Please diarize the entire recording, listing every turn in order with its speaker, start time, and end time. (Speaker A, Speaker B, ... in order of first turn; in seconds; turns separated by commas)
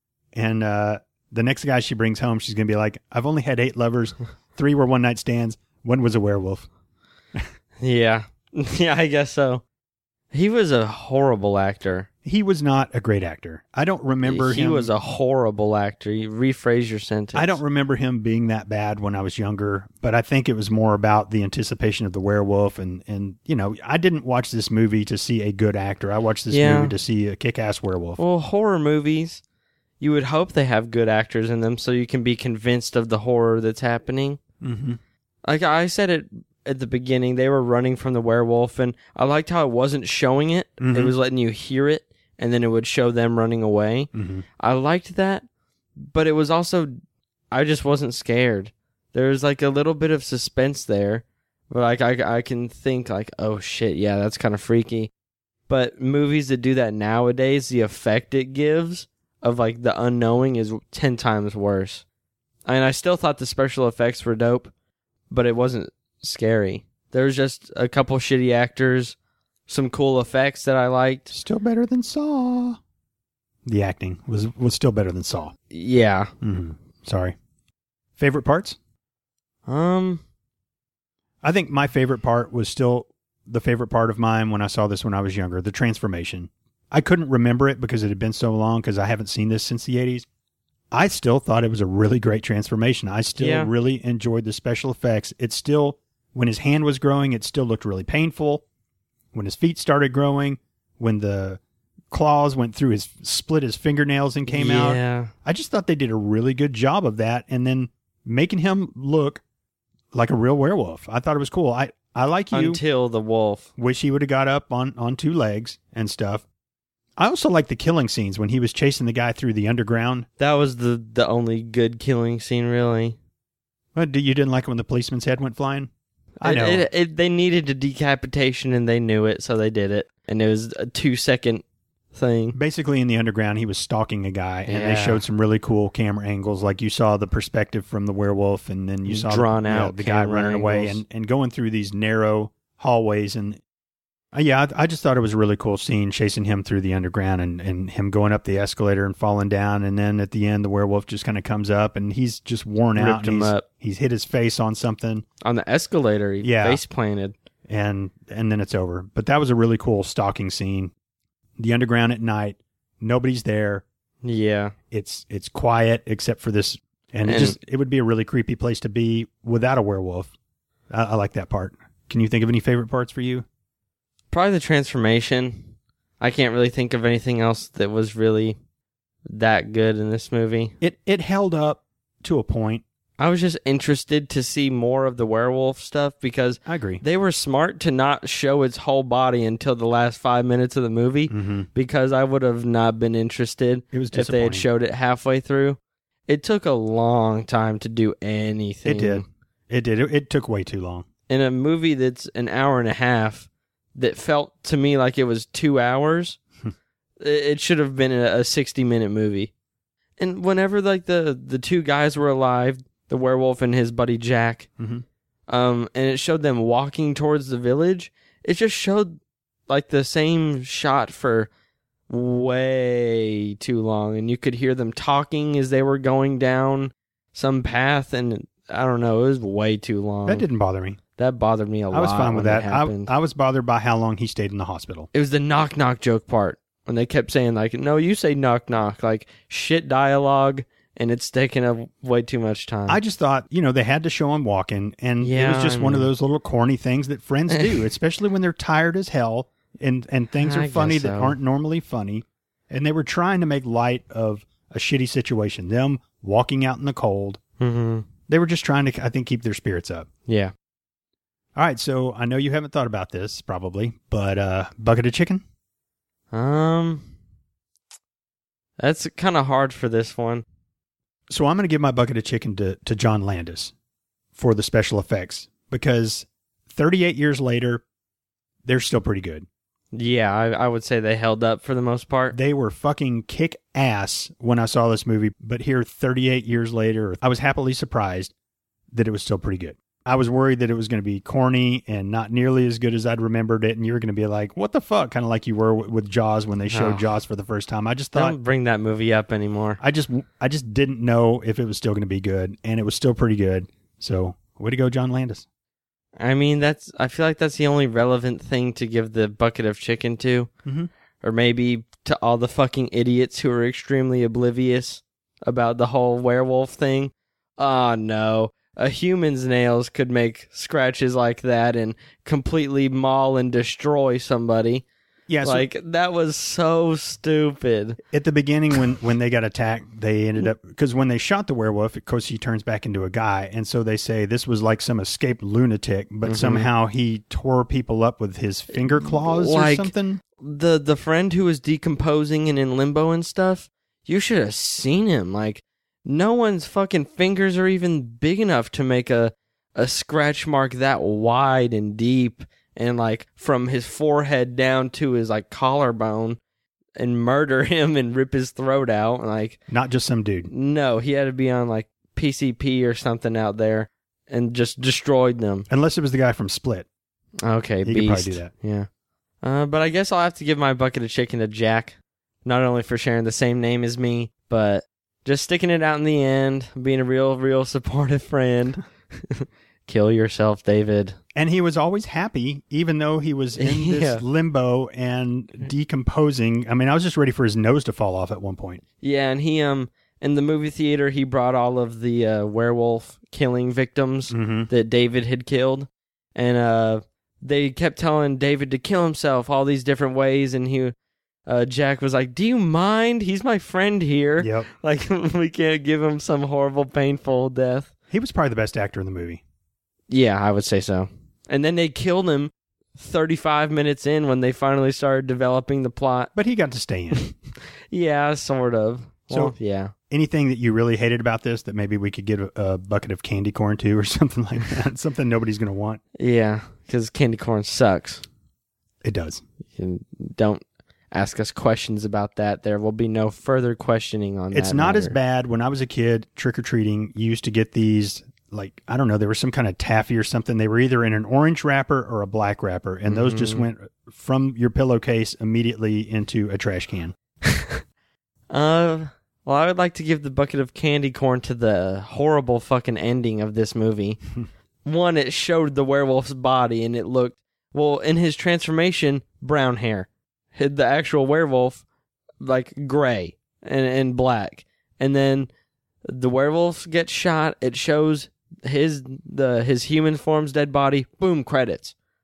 Speaker A: 0.3-6.7, Speaker B: 7.8-9.6, Speaker B: 10.3-12.1, Speaker A: 12.2-14.9, Speaker B: 14.2-17.6, Speaker A: 17.3-28.2, Speaker B: 26.5-26.9, Speaker B: 28.2-29.4, Speaker B: 30.0-34.4, Speaker A: 34.6-35.0, Speaker B: 35.4-45.4, Speaker A: 40.8-41.1, Speaker A: 44.1-44.4, Speaker B: 46.0-46.9, Speaker B: 47.5-55.1, Speaker B: 55.7-62.0, Speaker B: 62.6-64.7, Speaker B: 65.3-69.2, Speaker B: 69.7-71.3, Speaker A: 71.3-72.8, Speaker A: 73.7-75.5, Speaker B: 75.7-76.3, Speaker A: 76.4-77.3, Speaker A: 78.2-78.8, Speaker B: 79.7-80.2, Speaker A: 81.4-90.2, Speaker A: 90.9-98.6, Speaker B: 93.4-93.7, Speaker A: 99.3-101.6, Speaker A: 102.1-109.4, Speaker B: 104.5-105.3, Speaker A: 110.1-112.8, Speaker B: 112.5-113.7, Speaker A: 113.8-116.4, Speaker A: 117.2-120.3, Speaker B: 120.4-123.2, Speaker A: 123.9-125.9, Speaker A: 126.4-126.8, Speaker B: 126.4-132.6, Speaker A: 132.5-143.6, Speaker B: 134.7-135.2, Speaker B: 139.1-141.0, Speaker A: 144.3-155.2, Speaker B: 152.9-153.6, Speaker B: 155.4-157.3, Speaker A: 156.4-156.8, Speaker A: 157.7-160.9, Speaker A: 161.6-163.8, Speaker B: 164.2-164.7, Speaker A: 164.9-170.3, Speaker B: 167.2-167.6, Speaker A: 170.9-173.4, Speaker B: 174.3-175.7, Speaker B: 176.2-178.6, Speaker B: 179.3-180.7, Speaker A: 180.8-182.8, Speaker B: 183.2-199.2, Speaker A: 186.7-187.0, Speaker A: 191.3-191.7, Speaker A: 193.9-194.7, Speaker A: 198.8-201.1, Speaker B: 201.3-206.4, Speaker B: 207.2-209.5, Speaker B: 210.2-214.7, Speaker A: 214.8-215.0, Speaker B: 215.5-221.5, Speaker B: 222.1-230.4, Speaker A: 230.2-231.0, Speaker B: 231.2-233.1, Speaker A: 231.9-235.1, Speaker B: 235.1-243.0, Speaker A: 242.9-257.4, Speaker B: 245.2-246.1, Speaker B: 247.5-247.8, Speaker B: 250.4-251.4, Speaker B: 257.6-258.1, Speaker A: 258.3-260.1, Speaker B: 260.3-260.5, Speaker A: 261.5-265.4, Speaker B: 266.3-267.1, Speaker B: 268.8-270.4, Speaker A: 271.3-273.7, Speaker A: 274.3-277.8, Speaker A: 278.6-279.4, Speaker B: 279.9-282.4, Speaker A: 282.3-288.3, Speaker A: 288.9-298.4, Speaker B: 296.7-297.1, Speaker B: 298.1-299.8, Speaker A: 299.8-305.4, Speaker B: 306.2-310.5, Speaker B: 311.2-324.8, Speaker A: 325.3-325.6, Speaker B: 325.4-328.0, Speaker A: 328.0-340.2, Speaker B: 336.2-336.7, Speaker B: 338.7-356.4, Speaker B: 357.0-359.6, Speaker A: 359.7-360.5, Speaker B: 360.5-365.7, Speaker A: 365.7-366.9, Speaker B: 367.4-368.9, Speaker A: 367.8-368.5, Speaker B: 369.4-381.2, Speaker A: 381.3-388.8, Speaker B: 383.6-384.2, Speaker B: 389.0-400.9, Speaker A: 394.3-394.7, Speaker B: 401.5-407.9, Speaker A: 404.4-404.7, Speaker A: 408.1-409.4, Speaker B: 410.1-416.3, Speaker A: 416.3-417.3, Speaker B: 417.9-419.9, Speaker A: 419.3-419.5, Speaker A: 420.1-426.0, Speaker B: 426.2-428.2, Speaker A: 429.0-429.4, Speaker B: 429.8-430.6, Speaker B: 431.1-435.1, Speaker A: 434.5-447.1, Speaker B: 443.1-443.7, Speaker B: 447.4-447.8, Speaker B: 448.5-454.2, Speaker B: 454.8-461.8, Speaker B: 462.4-465.5, Speaker B: 466.1-471.9